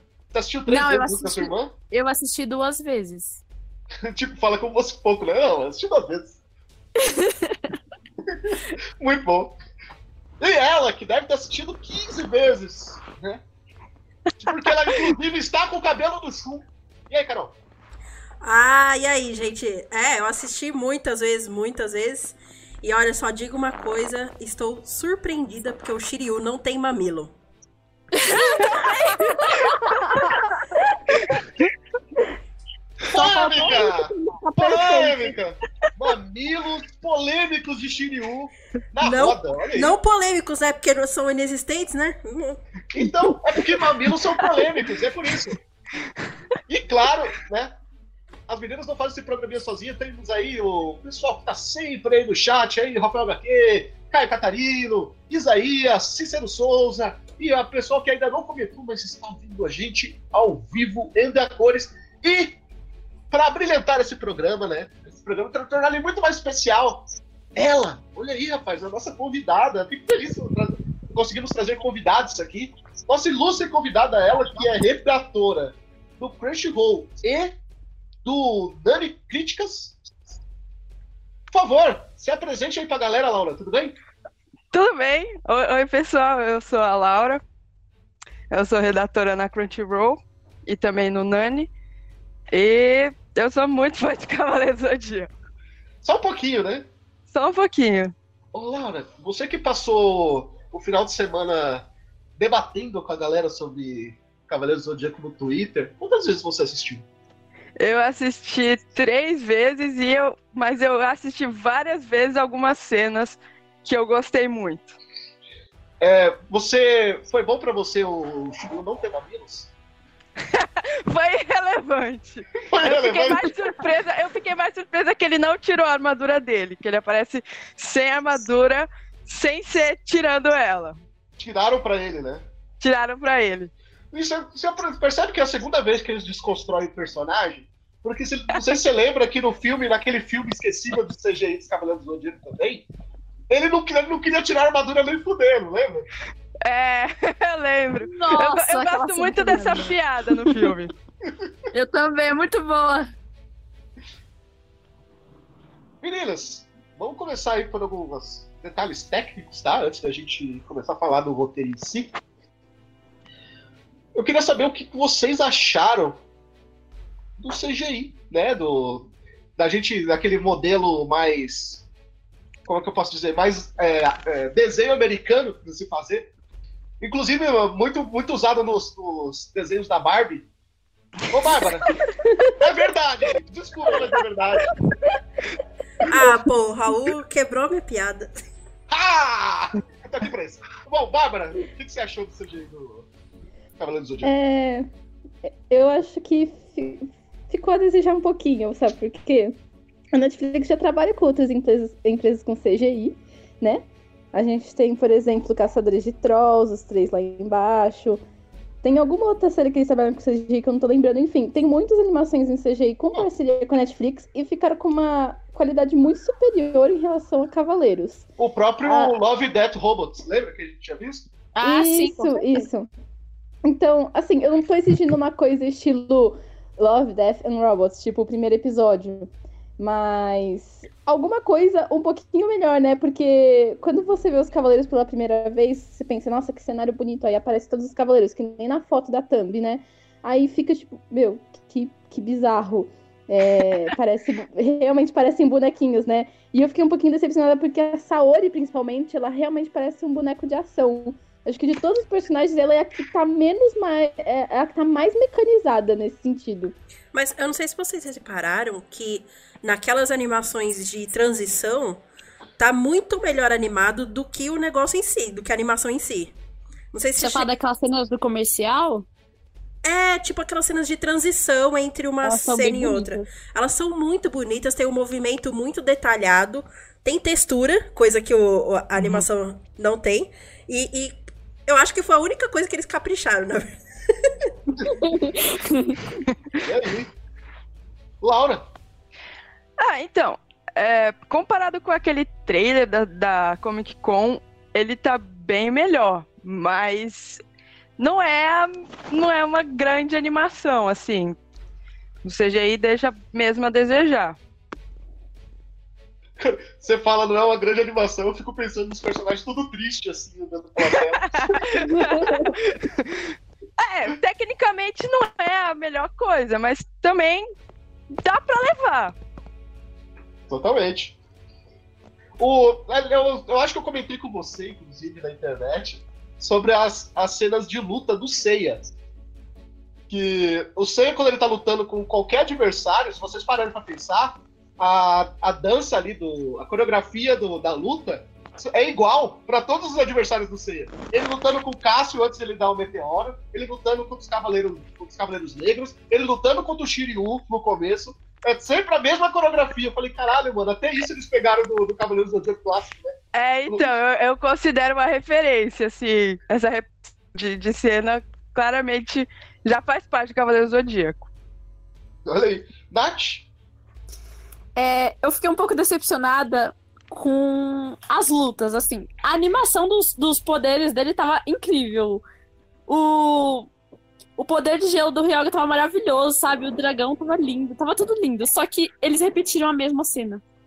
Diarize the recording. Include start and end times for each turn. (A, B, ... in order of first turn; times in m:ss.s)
0:00.3-0:01.7 A
0:00.7-0:03.4 B
0:04.0-0:06.4 A
0:07.0-0:07.8 B
0:08.3-0:09.6 A
0:10.4-0:13.4 A
0:14.4-0:17.6 A
0:18.4-0:27.3 C
0:28.1-0:30.4 B
0:30.9-0:31.3 B
0:33.1-0:40.0 A
0:33.2-0:35.4 B
0:39.0-0:42.6 C
0:42.9-0:45.6 A
0:46.7-0:47.8 A
0:48.5-1:02.6 A
1:03.3-1:17.6 A
1:18.2-1:20.0 A
1:21.5-1:24.0 A
1:24.7-1:27.4 D
1:28.5-1:31.7 D
1:32.5-1:35.3 D
1:36.0-1:36.9 A
1:37.3-1:38.1 D
1:38.5-1:47.1 A
1:47.8-1:55.0 D
1:56.0-1:59.7 A
2:00.5-2:11.0 D
2:02.7-2:03.5 A
2:11.4-2:12.5 A
2:12.8-2:13.7 D
2:14.1-2:22.9 A
2:23.5-2:26.1 A
2:26.6-2:30.9 D
2:28.0-2:29.9 B
2:31.7-2:33.1 B
2:36.0-2:42.2 A
2:44.2-2:46.2 A
2:47.4-2:51.9 A
2:52.7-2:56.3 A
2:57.0-3:00.5 A
3:01.3-3:01.9 A
3:02.2-3:02.6 E
3:02.6-3:04.7 A
3:06.0-3:08.4 C
3:08.9-3:13.1 A
3:13.8-3:14.3 A
3:14.2-3:14.9 E
3:15.7-3:19.6 E
3:20.1-3:28.2 E
3:28.8-3:38.3 E
3:38.4-3:41.3 A
3:38.8-3:39.2 E
3:41.6-3:42.7 B
3:41.6-3:42.9 E
3:43.6-4:16.8 E
4:17.1-4:22.0 C
4:22.6-4:26.4 C
4:26.9-4:27.5 C
4:27.2-4:29.1 B
4:29.8-4:44.3 C
4:32.2-4:33.3 B
4:45.0-4:46.0 B
4:46.6-4:47.1 A
4:48.2-4:48.7 A
4:49.8-4:57.4 D
4:58.0-5:01.4 D
5:02.2-5:04.4 D
5:06.4-5:11.9 A
5:11.2-5:17.5 D
5:11.9-5:12.5 B
5:18.2-5:19.2 D
5:20.5-5:21.2 A
5:22.4-5:28.9 A
5:30.1-5:53.2 A
5:53.3-6:01.3 D
6:02.3-6:03.5 A
6:04.8-6:12.2 B
6:12.9-6:13.7 B
6:14.4-6:20.4 B